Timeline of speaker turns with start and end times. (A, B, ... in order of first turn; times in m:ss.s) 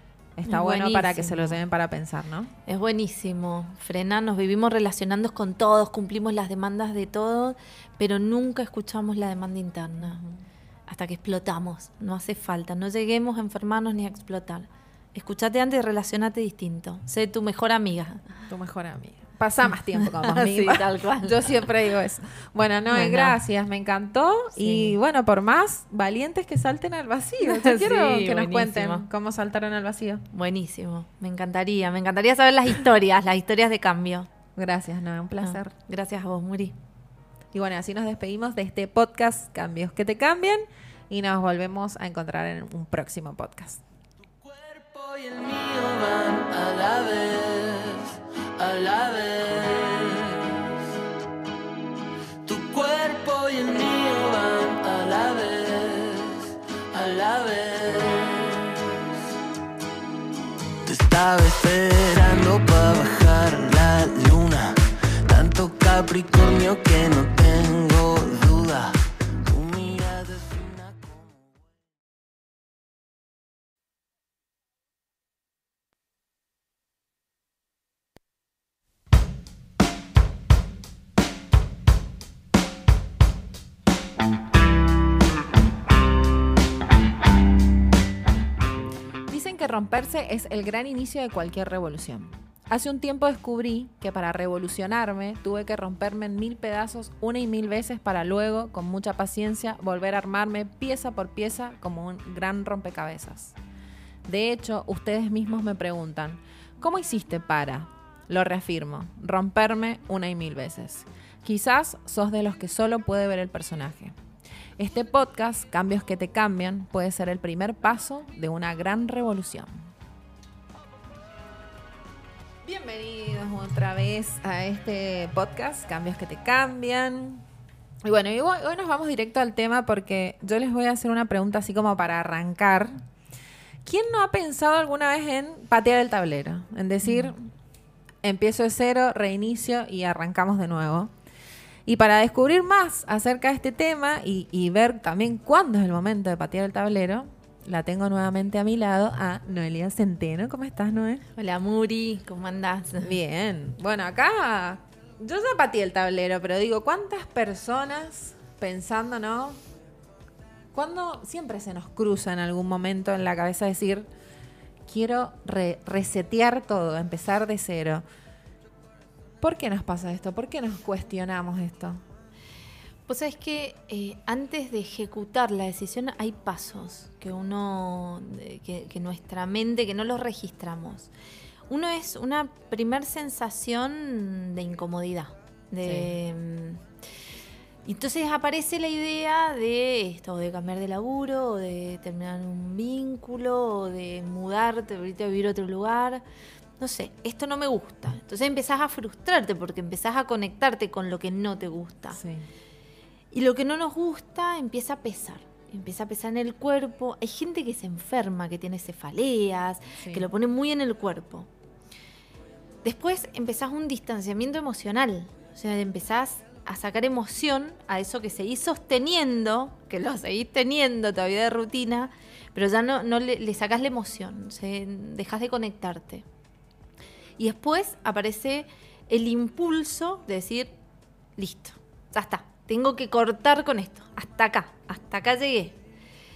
0:00.4-0:02.5 A
0:00.5-0:01.6 B
0:02.7-0:10.2 B
0:10.1-0:10.4 A
0:10.9-0:18.2 B
0:18.5-0:30.3 A
0:19.9-0:21.4 B
0:22.9-0:23.4 B
0:24.6-0:25.0 B
0:27.4-0:29.1 B
0:30.3-0:34.3 B
0:34.6-0:35.7 A
0:35.4-0:36.8 B
0:37.5-0:43.8 A
0:44.4-0:50.7 C
0:52.4-0:59.0 C
1:00.8-1:11.7 C
1:29.3-1:43.6 A
1:44.3-1:54.2 A
1:54.8-1:59.9 A
2:02.6-2:07.4 A
2:08.0-2:13.0 A
2:13.8-2:17.5 A
2:17.0-2:17.3 B
2:18.2-2:21.1 A
2:21.9-2:31.2 A
2:31.4-2:33.2 B
2:33.0-2:39.6 A
2:40.7-2:44.1 A
2:44.9-2:48.0 A
2:49.4-2:52.0 A
2:53.1-3:01.1 B
3:01.7-3:06.8 B
3:05.8-3:06.1 A
3:07.8-3:16.2 B
3:16.8-3:22.2 B
3:22.1-3:22.5 A
3:23.3-3:31.5 B
3:32.8-3:46.3 B
3:47.4-3:50.8 B
3:51.4-3:55.8 B